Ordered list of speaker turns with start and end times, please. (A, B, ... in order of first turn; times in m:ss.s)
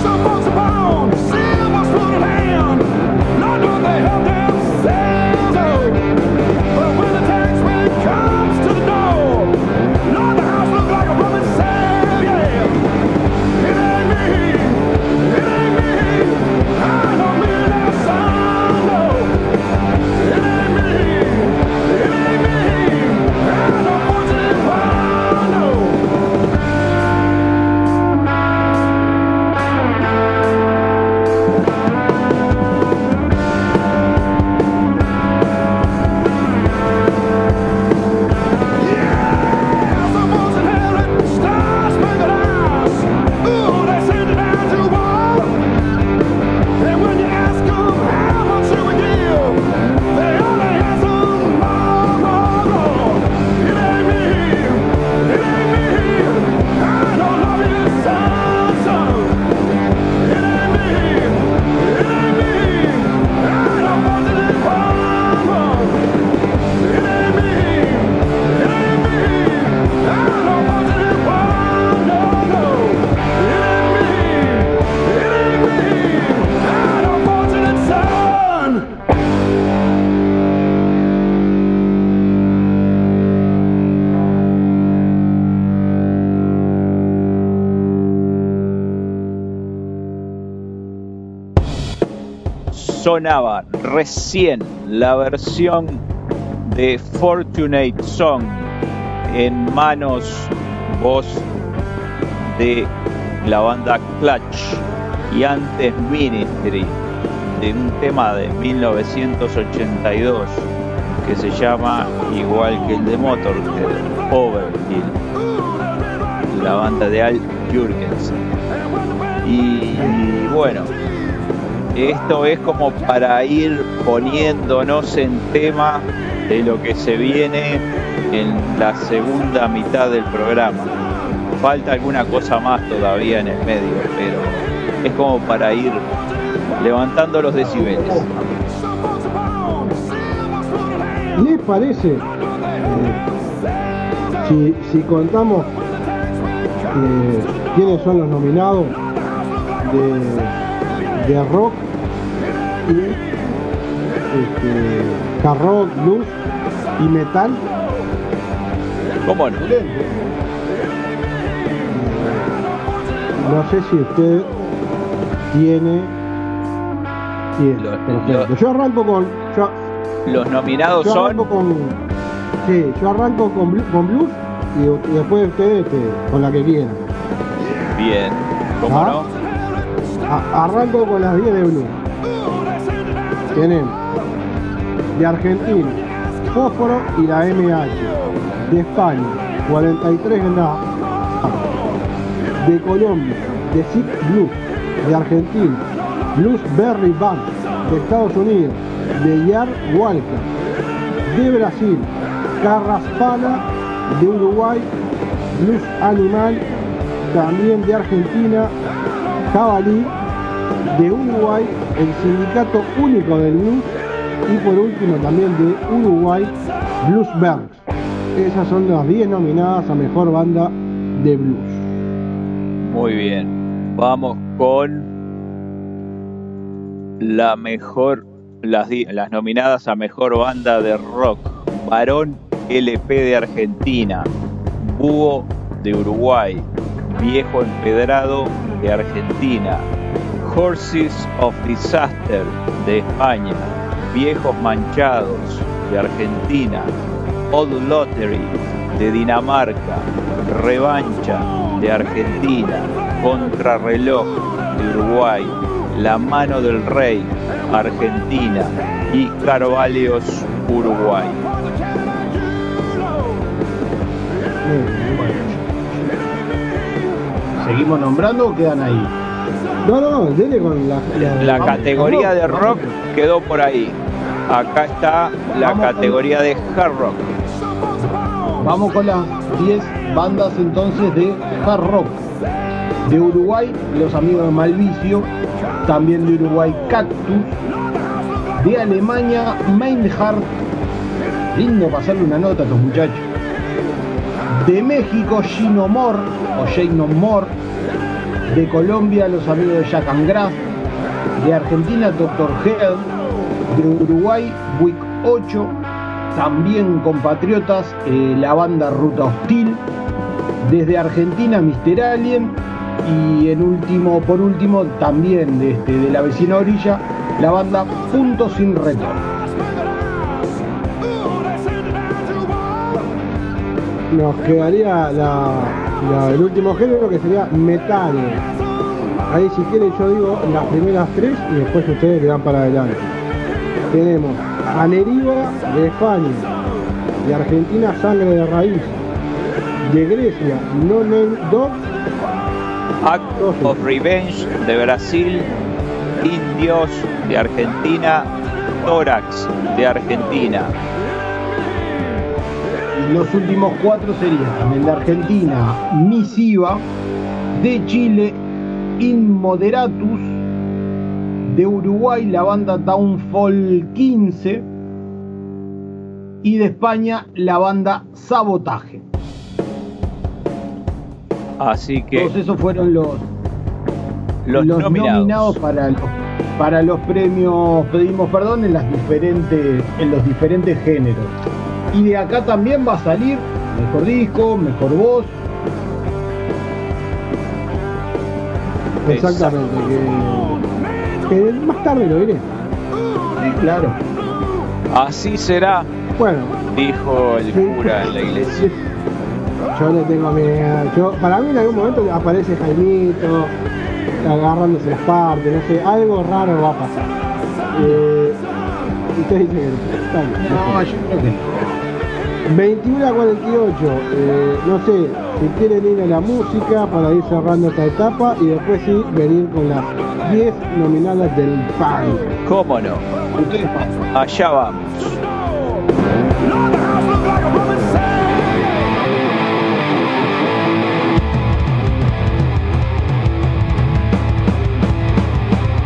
1:32.7-1:36.0 A
1:36.6-1:38.7 A
1:39.3-1:41.5 A
1:42.5-1:42.9 A
1:43.4-1:50.7 A
1:51.2-1:55.2 A
1:56.5-1:58.4 A
1:59.4-2:00.9 A
2:01.9-2:10.9 A
2:11.6-2:16.0 A
2:16.8-2:18.3 A
2:17.7-2:18.3 B
2:21.3-2:22.2 C
2:22.8-2:23.2 C
2:24.4-2:25.7 C
2:26.9-2:29.0 C
2:29.8-2:30.6 C
2:31.1-2:31.9 C
2:32.8-2:33.2 C
2:34.3-2:36.4 C
2:37.0-2:37.7 C
2:39.2-2:39.6 A
2:39.6-2:40.1 B
2:41.9-2:42.6 C
2:43.4-2:44.5 C
2:45.5-2:46.2 C
2:47.6-2:49.7 C
2:47.8-2:48.5 A
2:50.2-2:51.4 A
2:51.0-2:52.0 C
2:52.6-2:57.1 C
2:57.9-2:59.3 A
2:58.9-2:59.2 C
3:00.2-3:02.0 C
3:03.5-3:04.0 C
3:05.1-3:08.2 C
3:08.7-3:11.7 C
3:12.6-3:20.5 C
3:21.3-3:24.9 C
3:25.5-3:26.6 C
3:27.3-3:28.7 C
3:29.5-3:30.1 C
3:30.8-3:33.9 C
3:34.4-3:37.8 C
3:38.3-3:41.9 C
3:42.8-3:45.1 A
3:47.2-3:54.3 A
3:54.8-3:59.8 A
4:00.4-4:06.9 A
4:07.5-4:21.4 A
4:24.6-4:25.2 C
4:25.1-4:25.5 B
4:27.6-4:29.2 B
4:29.8-4:32.9 C
4:31.4-4:34.0 A
4:31.6-4:32.3 B
4:34.5-4:37.3 A
4:35.5-4:36.2 B
4:38.6-4:42.2 B
4:43.0-4:45.3 B
4:45.8-4:47.5 B
4:48.6-4:50.5 B
4:51.5-4:53.2 B
4:54.5-4:57.5 B
4:58.4-5:00.6 B
5:01.4-5:03.1 B
5:03.7-5:05.7 B
5:06.3-5:09.8 B
5:10.6-5:19.2 B
5:24.1-5:28.4 C
5:29.3-5:33.2 C
5:33.9-5:36.5 C
5:37.2-5:39.0 C
5:39.8-5:41.8 C
5:43.0-5:45.5 A
5:43.4-5:43.8 C
5:46.2-5:48.3 A
5:48.8-5:50.7 A
5:53.0-5:56.8 B
5:57.5-5:58.4 B
5:59.0-6:00.4 B
6:01.4-6:04.6 B
6:06.4-6:09.0 B
6:11.6-6:12.3 A
6:12.1-6:13.2 B
6:14.4-6:15.6 A
6:14.5-6:21.3 B
6:21.9-6:25.3 B
6:29.0-6:30.6 C
6:29.1-6:29.6 A
6:31.3-6:32.5 C
6:33.4-6:34.0 B
6:34.9-6:35.9 A
6:36.1-6:36.6 C
6:36.7-6:38.7 A
6:37.5-6:38.8 C
6:39.7-6:43.6 C
6:44.2-6:47.1 C
6:47.7-6:48.4 C
6:49.1-6:50.8 C
6:50.4-6:51.7 B
6:52.5-7:02.4 C
7:02.4-7:03.0 A
7:03.4-7:03.9 B
7:04.1-7:05.2 A